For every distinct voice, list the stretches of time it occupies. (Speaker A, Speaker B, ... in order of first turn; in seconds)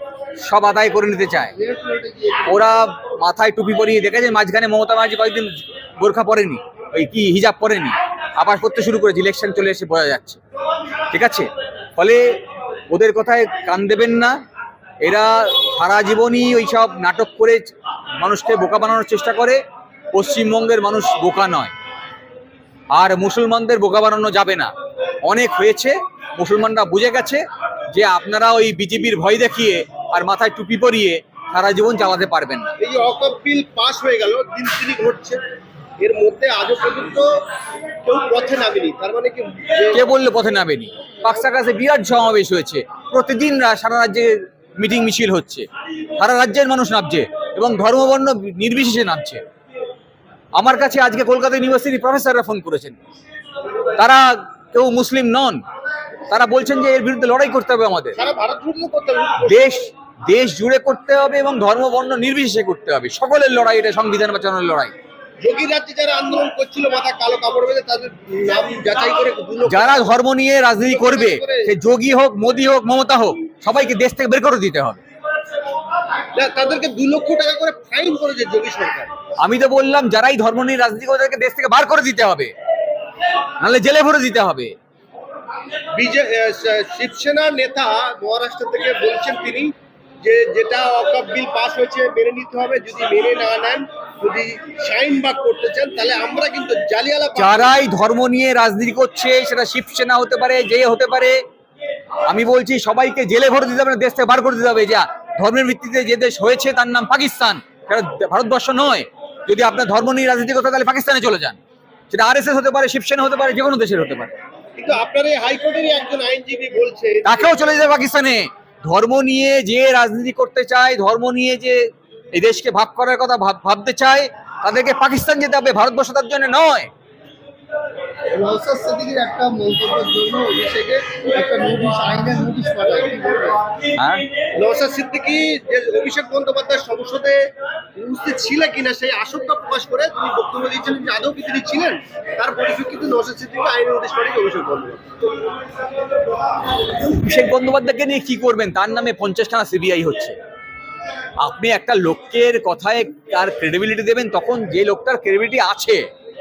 Speaker A: 0.4-1.5, 2.5-10.4, 11.1-12.4, 12.9-14.4, 15.0-19.6, 20.1-21.7, 22.9-24.7, 25.2-32.7, 39.9-45.6, 46.2-49.4, 50.6-53.0, 54.0-55.6, 56.3-58.2, 59.5-64.9, 69.7-75.0, 79.4-82.5, 83.6-84.7, 97.4-101.4, 102.3-111.6, 112.1-114.3, 117.2-121.8, 122.3-126.9, 134.0-134.2, 147.0-150.3, 151.4-156.1
Speaker B: 1.5-2.5, 128.3-133.6
Speaker C: 32.8-35.4, 36.0-37.3, 38.0-40.1, 41.2-41.5, 58.1-59.9, 65.4-70.1, 70.8-71.7, 76.3-79.1, 85.9-89.7, 90.2-97.7, 114.8-117.6, 134.6-145.2